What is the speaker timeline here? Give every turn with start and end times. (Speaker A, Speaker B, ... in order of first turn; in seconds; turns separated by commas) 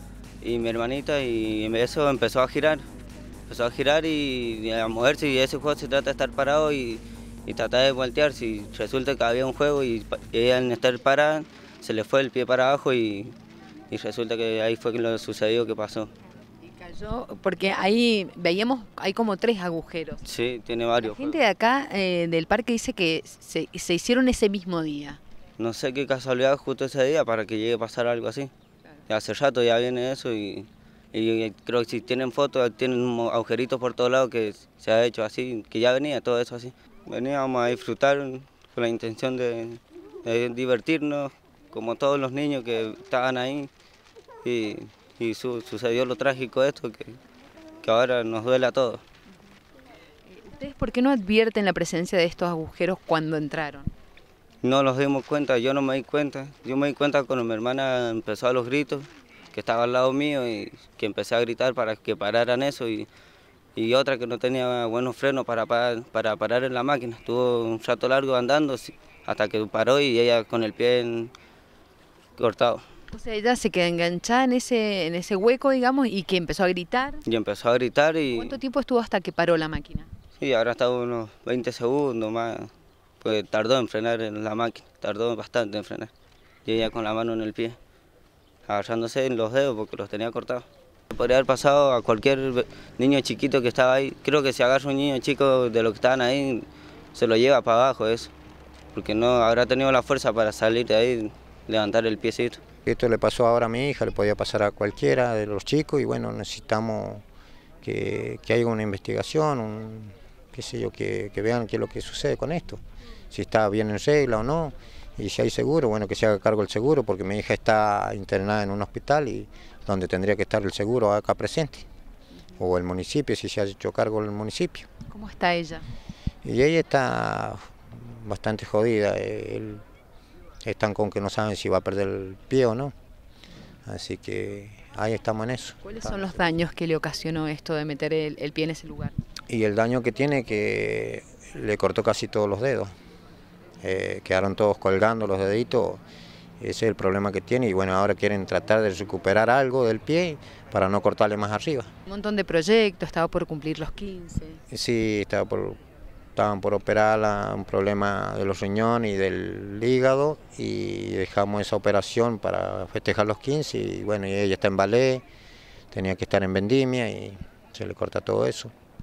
Speaker A: 0.4-2.9, Speaker A: 3.5-13.4, Speaker A: 13.9-16.1, Speaker B: 16.6-20.2, Speaker A: 20.2-21.4, Speaker B: 21.0-25.2, Speaker A: 25.6-28.5, Speaker A: 29.1-43.7, Speaker A: 44.4-47.2, Speaker A: 47.8-49.0, Speaker B: 50.3-53.9, Speaker A: 54.6-63.1, Speaker A: 63.8-71.3, Speaker A: 72.4-72.9, Speaker B: 73.1-77.2, Speaker A: 77.2-78.6, Speaker B: 78.3-80.1, Speaker A: 80.4-86.1, Speaker A: 86.7-87.8, Speaker A: 88.7-98.3, Speaker A: 98.9-102.6, Speaker C: 102.9-107.2, Speaker C: 107.8-121.8, Speaker C: 122.6-124.9, Speaker B: 125.1-125.8, Speaker C: 126.4-129.8, Speaker C: 130.6-132.9, Speaker C: 133.9-136.4, Speaker B: 135.8-139.2, Speaker C: 139.5-142.9, Speaker C: 143.8-146.0, Speaker C: 146.6-151.9, Speaker B: 152.1-154.6, Speaker C: 154.7-155.8, Speaker C: 156.3-165.2, Speaker C: 165.9-168.7